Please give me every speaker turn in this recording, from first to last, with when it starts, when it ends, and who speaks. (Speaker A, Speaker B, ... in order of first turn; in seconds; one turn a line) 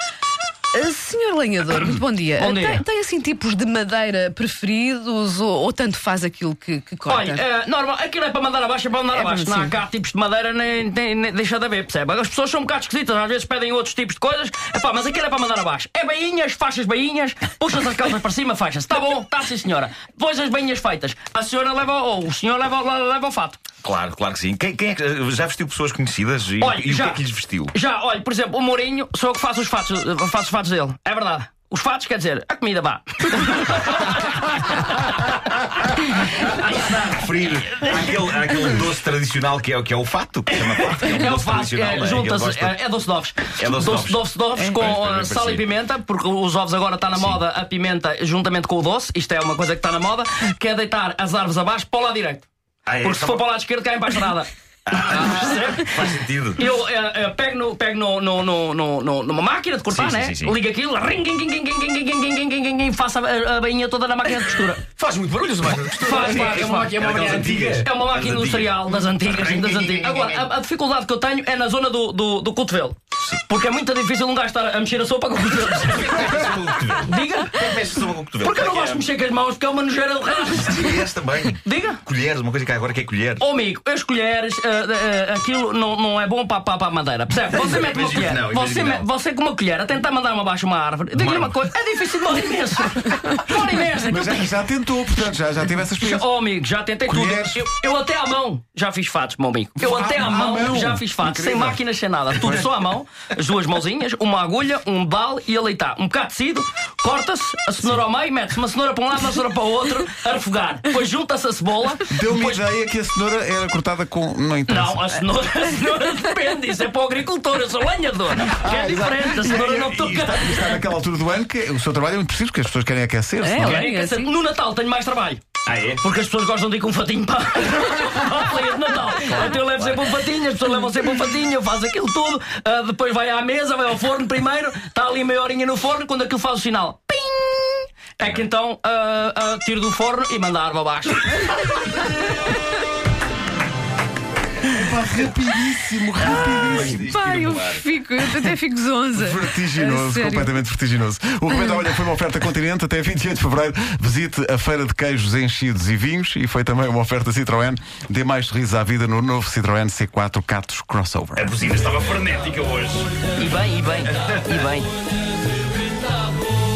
Speaker A: 0.7-7.4
Speaker B: 2.4-2.8
Speaker B: 7.1-23.6
Speaker A: 9.1-9.7
Speaker C: 23.8-27.7
Speaker B: 26.6-27.2
Speaker B: 27.7-37.2
Speaker C: 37.1-42.8
Speaker B: 40.5-52.5
Speaker C: 43.6-45.7
Speaker C: 47.1-47.4
Speaker C: 52.9-53.4
Speaker B: 53.0-56.0
Speaker C: 54.9-56.6
Speaker B: 56.5-64.8
Speaker C: 59.9-60.5
Speaker D: 64.9-67.8
Speaker B: 66.0-81.0
Speaker C: 66.1-68.8
Speaker C: 69.4-70.2
Speaker C: 76.0-79.0
Speaker C: 80.5-83.4
Speaker B: 81.6-82.0
Speaker B: 83.4-94.5
Speaker C: 87.5-89.0
Speaker C: 91.1-91.6
Speaker E: 94.0-96.2
Speaker B: 96.0-112.6
Speaker E: 97.0-97.6
Speaker E: 99.8-101.8
Speaker E: 112.0-115.1
Speaker B: 114.7-120.8
Speaker E: 118.6-123.8
Speaker C: 119.5-120.4
Speaker A: 123.4-124.3
Speaker B: 123.6-125.4
Speaker C: 125.7-126.0
Speaker B: 126.0-142.1
Speaker E: 144.7-147.1
Speaker C: 146.4-147.8
Speaker A: 146.9-150.5
Speaker E: 149.1-161.5
Speaker C: 161.3-163.1
Speaker B: 163.3-164.9